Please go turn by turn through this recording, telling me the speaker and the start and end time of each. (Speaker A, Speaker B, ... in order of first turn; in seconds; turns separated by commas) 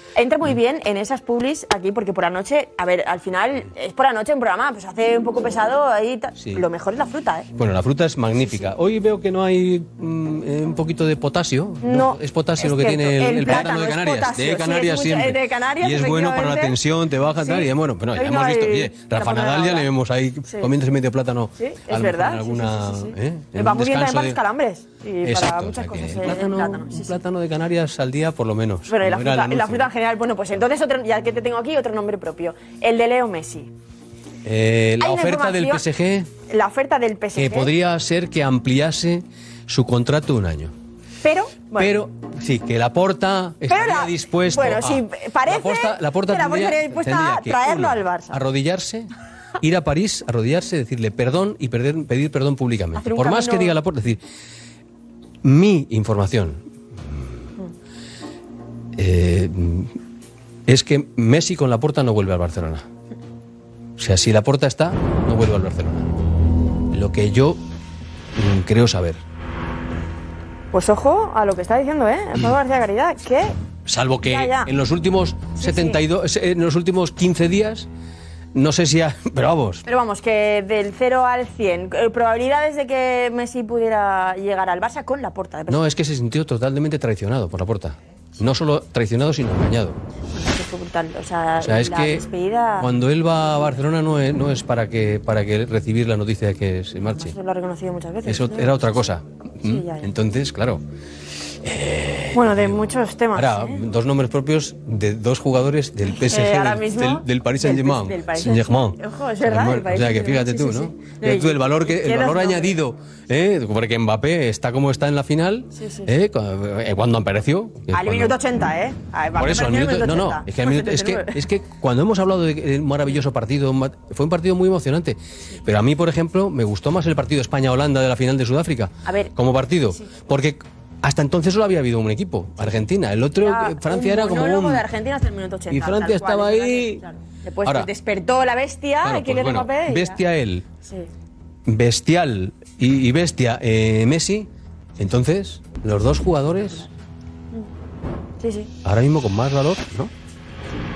Speaker A: 0.2-7.5, Speaker B: 7.6-24.4, Speaker A: 8.4-8.7, Speaker A: 11.8-16.8, Speaker A: 17.4-19.9, Speaker A: 20.5-20.7, Speaker A: 21.6-27.2, Speaker B: 25.3-29.8, Speaker A: 28.9-33.7, Speaker B: 34.5-36.3, Speaker A: 35.0-35.8, Speaker A: 36.5-37.7, Speaker B: 37.4-40.7, Speaker A: 41.2-42.0, Speaker B: 41.8-49.1, Speaker A: 43.7-48.4, Speaker B: 49.6-54.2, Speaker A: 53.0-53.8, Speaker B: 55.5-56.6, Speaker B: 59.0-59.9, Speaker B: 60.7-62.8, Speaker B: 64.0-66.1, Speaker B: 66.9-67.6, Speaker B: 68.4-69.2, Speaker A: 70.7-73.6, Speaker B: 73.9-77.9, Speaker A: 74.2-74.7, Speaker A: 75.6-76.0, Speaker B: 78.5-79.8, Speaker A: 79.9-85.9, Speaker B: 85.7-90.0, Speaker A: 90.3-92.9, Speaker B: 91.6-92.2, Speaker B: 92.8-97.3, Speaker A: 93.5-93.8, Speaker A: 97.1-100.1, Speaker B: 98.3-100.8, Speaker B: 101.7-102.8, Speaker A: 102.3-103.8, Speaker B: 103.4-109.0, Speaker A: 106.1-112.8, Speaker B: 109.5-118.3, Speaker A: 115.7-116.1, Speaker A: 117.9-121.4, Speaker B: 119.4-134.8, Speaker A: 129.0-129.3, Speaker A: 132.6-140.2, Speaker B: 135.7-137.0, Speaker B: 139.0-140.6, Speaker A: 140.8-141.1, Speaker B: 141.7-144.5, Speaker B: 145.0-146.9, Speaker A: 148.4-148.7, Speaker B: 148.8-150.1